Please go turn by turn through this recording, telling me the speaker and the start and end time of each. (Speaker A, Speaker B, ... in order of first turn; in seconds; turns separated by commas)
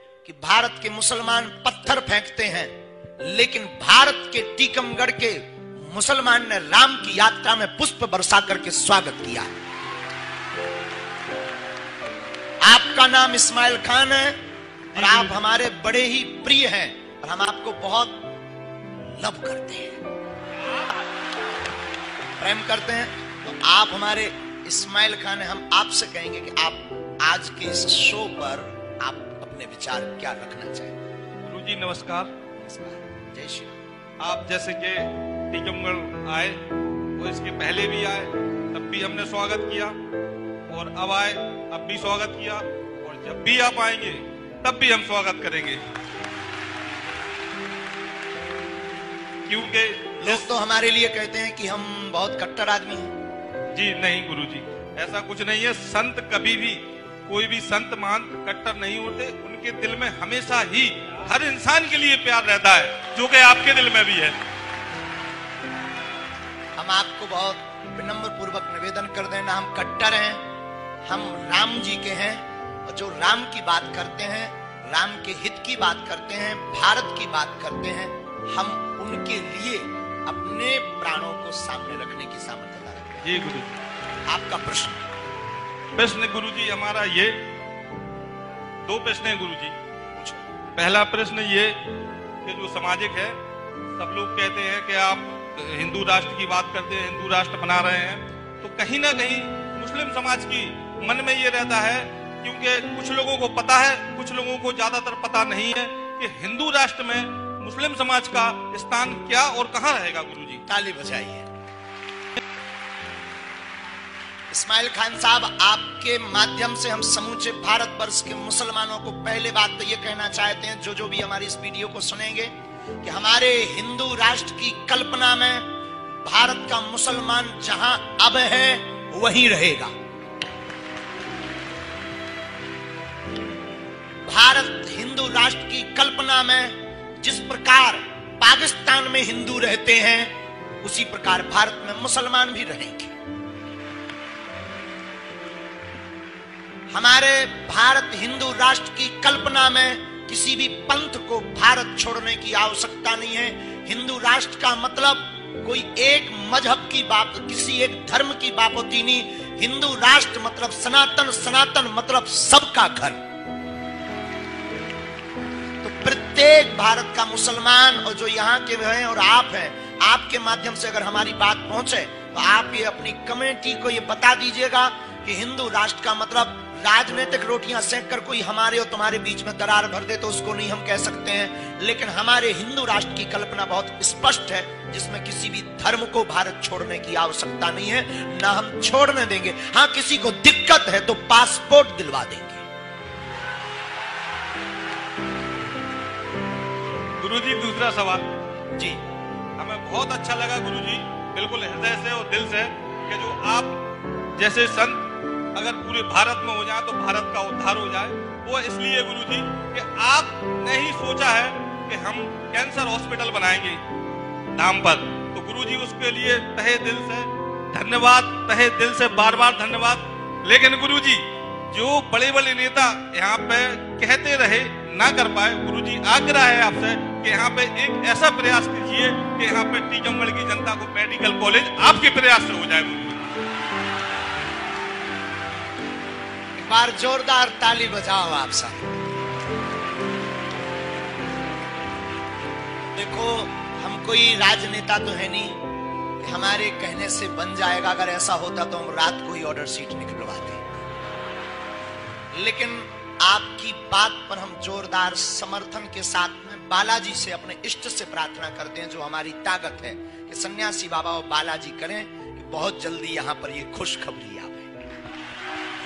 Speaker A: 0.2-9.5, Speaker A: 12.6-14.4, Speaker A: 14.9-18.2, Speaker B: 15.0-15.3, Speaker A: 19.2-20.0, Speaker A: 22.4-31.0, Speaker B: 31.4-32.3, Speaker A: 32.6-33.8, Speaker B: 34.2-36.6, Speaker B: 37.2-40.0, Speaker B: 40.7-45.8, Speaker B: 49.5-50.5, Speaker A: 50.2-53.1, Speaker B: 53.7-64.4, Speaker A: 66.8-70.4, Speaker A: 71.0-83.2, Speaker B: 83.2-83.8, Speaker A: 84.3-85.1, Speaker B: 86.0-87.4, Speaker B: 88.8-89.8, Speaker B: 90.8-91.8, Speaker B: 92.4-93.4, Speaker B: 94.0-110.7, Speaker A: 110.7-111.5, Speaker A: 114.5-125.7, Speaker A: 126.2-129.9, Speaker A: 134.3-143.2, Speaker A: 146.9-163.2, Speaker A: 165.8-192.7, Speaker B: 197.2-198.2, Speaker A: 198.8-199.0, Speaker B: 199.6-203.8, Speaker B: 204.4-213.8, Speaker B: 214.5-233.3, Speaker A: 236.6-238.9, Speaker A: 242.9-245.6, Speaker A: 246.2-250.8, Speaker A: 252.3-264.7